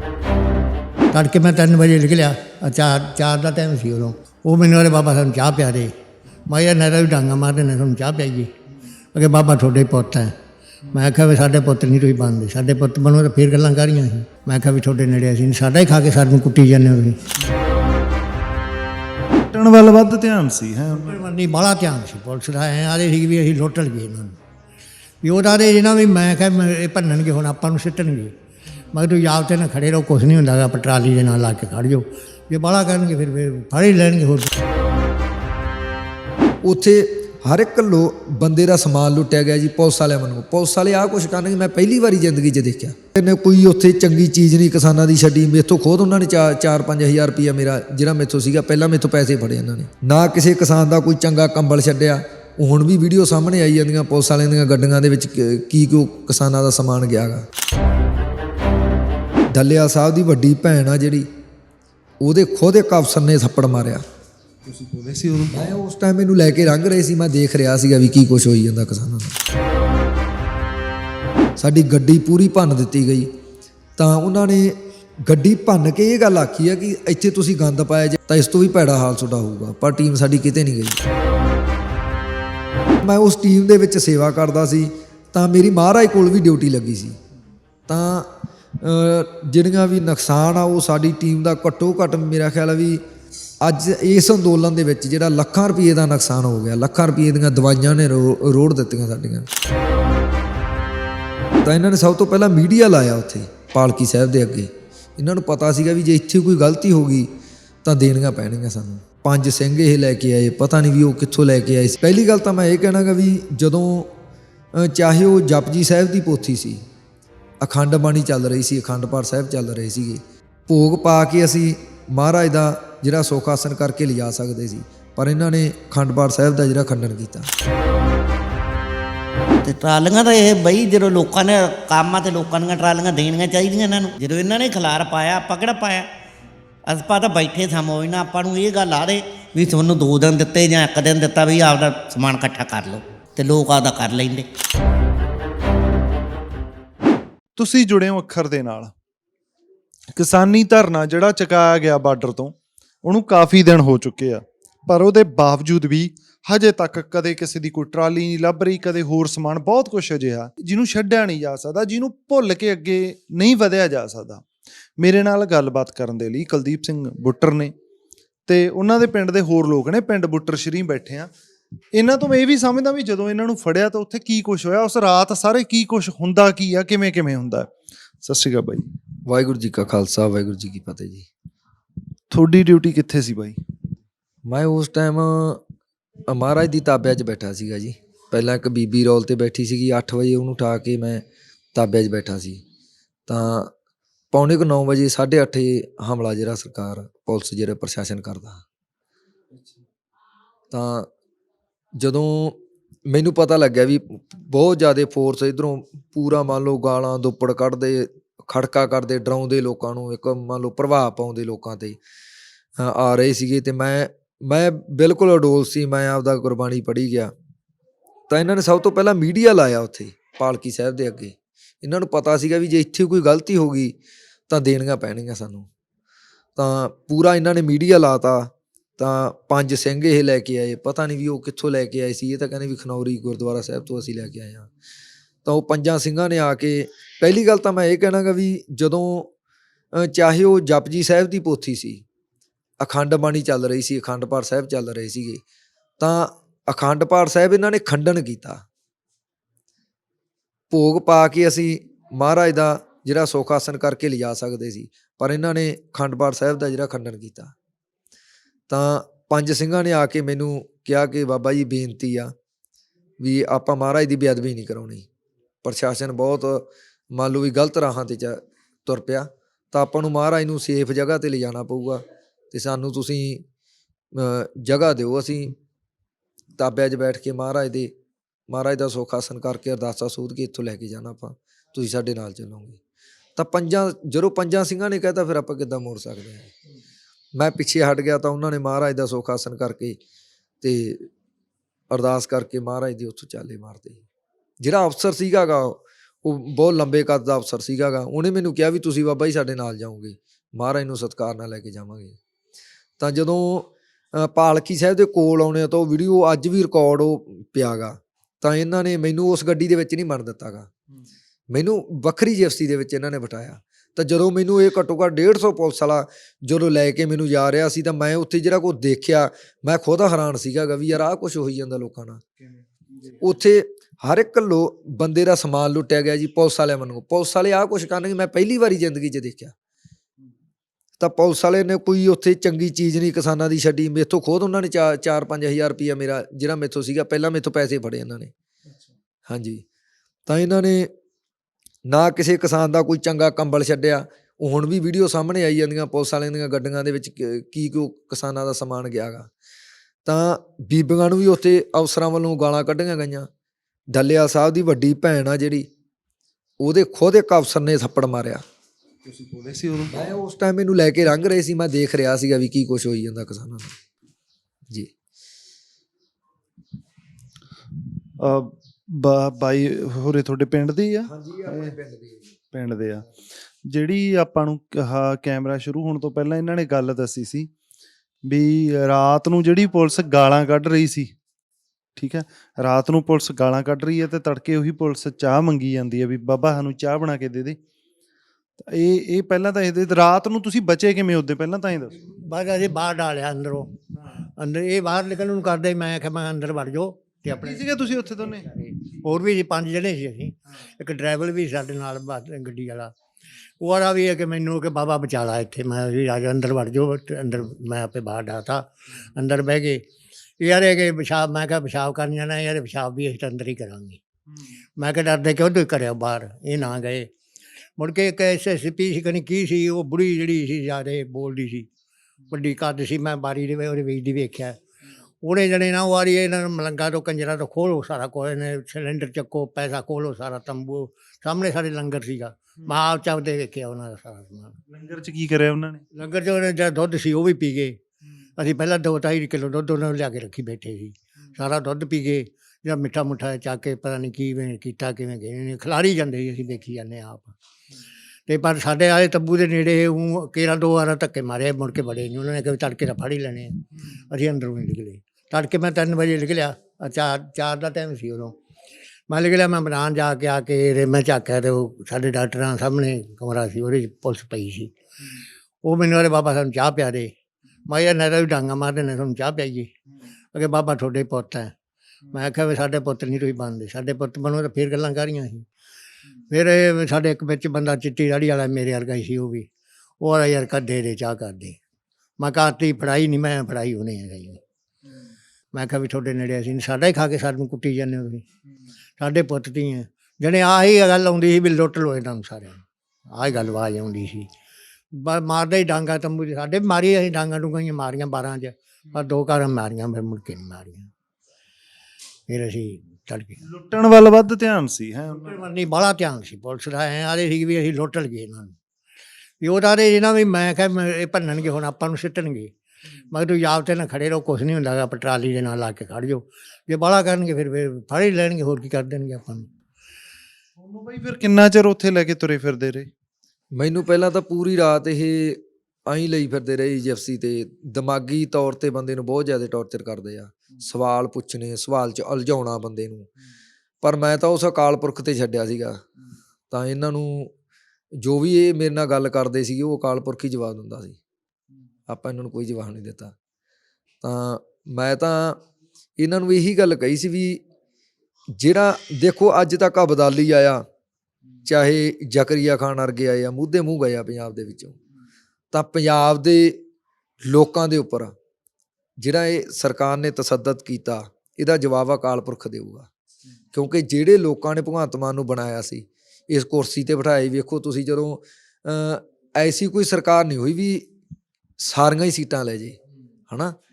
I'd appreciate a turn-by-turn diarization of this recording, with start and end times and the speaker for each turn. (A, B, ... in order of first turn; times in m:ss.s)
0:01.1-0:05.9 A
0:06.5-0:08.5 A
0:09.1-0:10.3 A
0:10.9-0:17.2 A
0:19.5-0:21.2 B
0:20.9-0:24.4 A
0:25.2-0:28.3 A
0:28.9-0:34.5 A
0:36.6-0:57.5 C
0:59.5-1:01.3 C
1:02.2-1:04.0 C
1:04.6-1:05.7 B
1:05.5-1:09.3 C
1:11.6-1:13.3 C
1:14.0-1:21.0 C
1:23.0-1:27.2 C
1:27.9-1:33.0 C
1:33.6-1:39.5 C
1:41.6-1:47.3 C
1:47.8-1:54.1 C
1:54.8-1:56.8 C
1:57.6-2:07.5 C
2:09.6-2:16.1 D
2:16.9-2:24.5 D
2:27.6-2:28.9 B
2:30.1-2:44.4 B
2:45.0-2:47.7 B
2:48.5-2:51.3 B
2:51.9-2:58.9 B
2:59.2-3:01.3 C
3:02.3-3:03.6 B
3:04.5-3:05.6 C
3:06.3-3:12.6 C
3:13.3-3:13.7 C
3:14.3-3:18.6 C
3:19.5-3:19.8 B
3:20.7-3:21.1 C
3:22.0-3:32.0 C
3:32.8-3:37.3 C
3:38.3-3:44.0 C
3:44.5-3:45.7 C
3:46.6-3:54.7 C
3:55.4-3:59.3 C
3:59.9-4:02.0 C
4:02.8-4:05.4 C
4:06.0-4:08.6 C
4:10.7-4:17.5 C
4:18.7-4:22.3 C
4:23.2-4:25.1 C
4:25.6-4:33.4 C
4:34.1-4:35.6 C
4:36.6-4:37.9 C
4:38.5-4:42.8 C
4:43.4-4:46.5 C
4:47.4-4:50.0 C
4:50.6-4:51.1 C
4:51.9-4:54.0 C
4:54.6-5:02.2 C
5:03.0-5:10.7 C
5:11.5-5:22.2 C
5:22.9-5:23.2 B
5:23.2-5:29.5 C
5:31.0-5:38.3 C
5:39.3-5:39.6 C
5:40.3-5:40.9 C
5:41.9-5:49.3 C
5:50.0-5:53.3 C
5:53.9-5:55.7 C
5:56.6-5:58.4 C
5:59.0-6:00.1 B
5:59.9-6:03.8 C
6:08.2-6:11.8 B
6:11.1-6:12.3 C
6:12.5-6:13.0 B
6:13.7-6:17.5 B
6:18.3-6:21.1 B
6:22.0-6:27.6 B
6:28.6-6:32.0 B
6:32.0-6:33.7 A
6:34.4-6:42.9 A
6:37.4-6:38.5 B
6:43.6-6:49.8 A
6:50.4-6:54.0 A
6:54.8-6:57.1 A
6:57.8-7:01.7 A
7:02.3-7:04.6 A
7:05.2-7:14.6 A
7:14.7-7:15.9 B
7:15.9-7:17.8 A
7:18.4-7:27.3 A
7:28.3-7:33.5 A
7:34.1-7:38.4 A
7:39.1-7:44.7 A
7:45.6-7:47.1 A
7:47.7-7:49.7 A
7:50.3-7:51.5 A
7:52.1-7:55.5 A
7:56.3-7:59.5 A
8:00.0-8:01.6 A
8:02.2-8:04.4 A
8:05.5-8:08.2 A
8:09.0-8:14.3 A
8:14.9-8:20.9 A
8:22.3-8:23.4 A
8:23.4-8:25.4 B
8:25.1-8:28.5 A
8:29.4-8:32.5 A
8:33.1-8:39.5 A
8:40.6-8:42.9 B
8:43.6-8:53.1 C
8:53.8-8:55.8 C
8:56.5-8:57.3 C
8:58.0-9:01.0 C
9:01.9-9:03.1 C
9:04.0-9:05.4 C
9:06.0-9:07.4 C
9:08.4-9:10.6 C
9:11.5-9:14.8 C
9:15.5-9:16.6 C
9:17.2-9:18.1 C
9:19.0-9:22.9 C
9:23.5-9:30.9 C
9:31.6-9:32.8 C
9:33.3-9:33.6 C